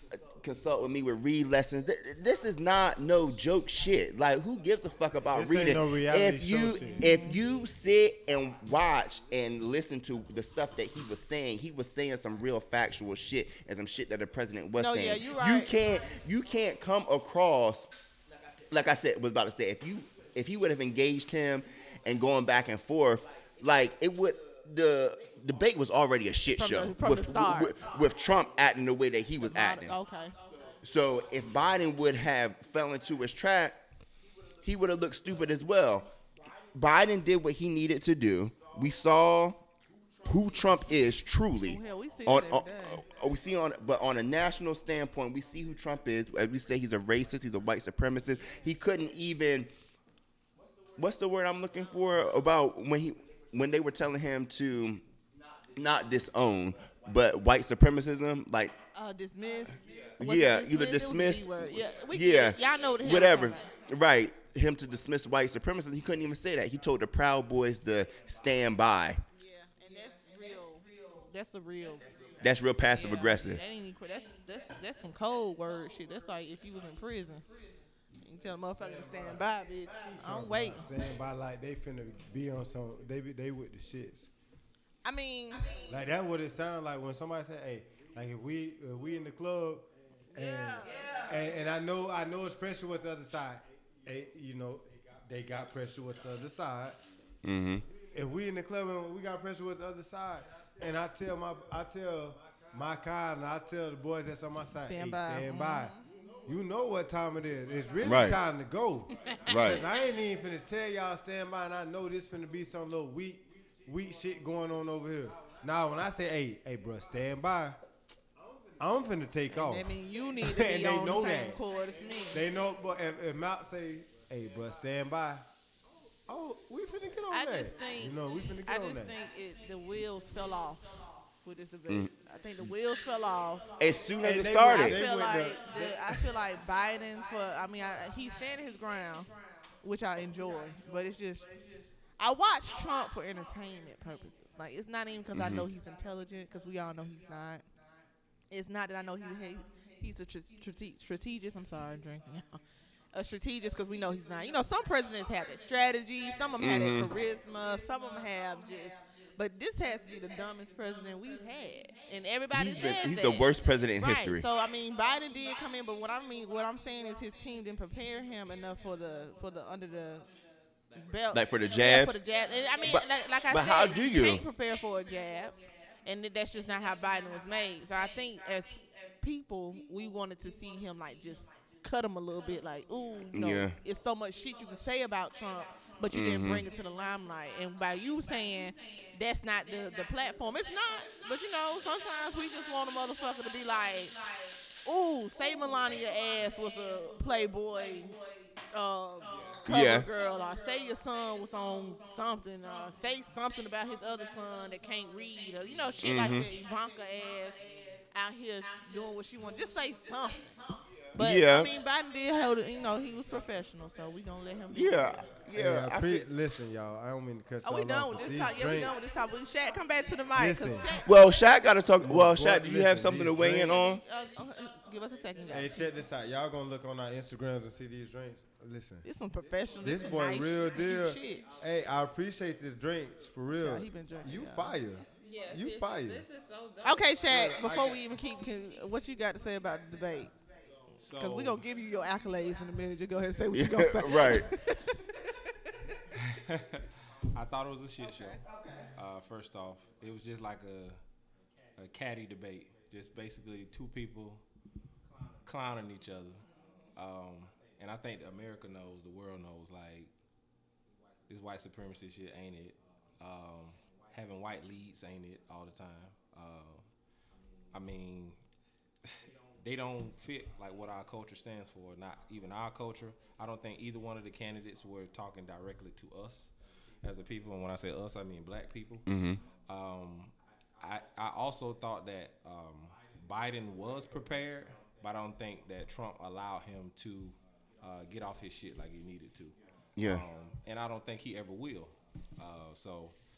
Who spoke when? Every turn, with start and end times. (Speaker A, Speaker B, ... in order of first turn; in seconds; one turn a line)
Speaker A: 0.4-17.9
Speaker B: 5.3-7.1
Speaker C: 7.0-7.4
Speaker C: 14.7-15.7
Speaker A: 18.7-29.9
Speaker C: 26.5-27.8
Speaker C: 29.4-30.3
Speaker A: 30.8-33.8
Speaker A: 34.6-36.1
Speaker A: 36.7-39.6
Speaker A: 40.2-49.7
Speaker C: 41.6-43.0
Speaker A: 51.0-55.0
Speaker A: 55.7-58.7
Speaker C: 58.9-63.7
Speaker A: 60.2-69.2
Speaker C: 69.4-72.1
Speaker A: 72.4-73.6
Speaker C: 72.9-77.4
Speaker C: 78.2-80.9
Speaker B: 78.8-79.4
Speaker B: 80.0-84.3
Speaker C: 85.0-85.8
Speaker B: 85.9-97.0
Speaker C: 90.4-91.0
Speaker A: 97.4-97.8
Speaker B: 98.1-117.8
Speaker C: 104.8-106.0
Speaker A: 108.0-108.4
Speaker A: 109.5-109.8
Speaker B: 118.8-121.6
Speaker C: 119.5-122.4
Speaker B: 122.3-125.5
Speaker B: 126.3-129.1
Speaker C: 127.3-133.7
Speaker A: 133.8-135.0
Speaker B: 134.2-136.2
Speaker C: 134.3-141.5
Speaker C: 142.2-147.6
Speaker A: 145.3-145.7
Speaker C: 148.5-152.6
Speaker C: 153.1-170.3
Speaker A: 156.6-157.1
Speaker A: 162.5-164.5
Speaker C: 170.9-210.4
Speaker A: 171.3-172.2
Speaker A: 172.8-174.4
Speaker A: 183.3-183.8
Speaker A: 186.1-186.6
Speaker A: 199.7-200.1
Speaker A: 206.0-206.5
Speaker C: 211.1-215.2
Speaker A: 211.2-211.7
Speaker A: 214.7-216.2
Speaker B: 215.5-218.9
Speaker C: 217.6-221.1
Speaker B: 220.3-220.9
Speaker A: 221.1-224.0
Speaker B: 222.0-223.8
Speaker C: 223.6-226.0
Speaker B: 225.5-229.0
Speaker C: 229.0-231.5
Speaker B: 229.8-236.2
Speaker C: 233.5-234.8
Speaker D: 235.2-237.5
Speaker C: 236.8-240.3
Speaker B: 237.5-237.9
Speaker E: 240.9-241.6
Speaker C: 241.2-245.7
Speaker A: 243.5-244.5
Speaker E: 246.1-248.4
Speaker E: 248.9-251.0
Speaker E: 251.7-254.4
Speaker E: 255.4-260.1
Speaker E: 261.3-266.8
Speaker E: 267.7-268.4
Speaker E: 269.0-279.1
Speaker A: 279.1-279.4
Speaker E: 279.6-293.1
Speaker A: 290.0-290.2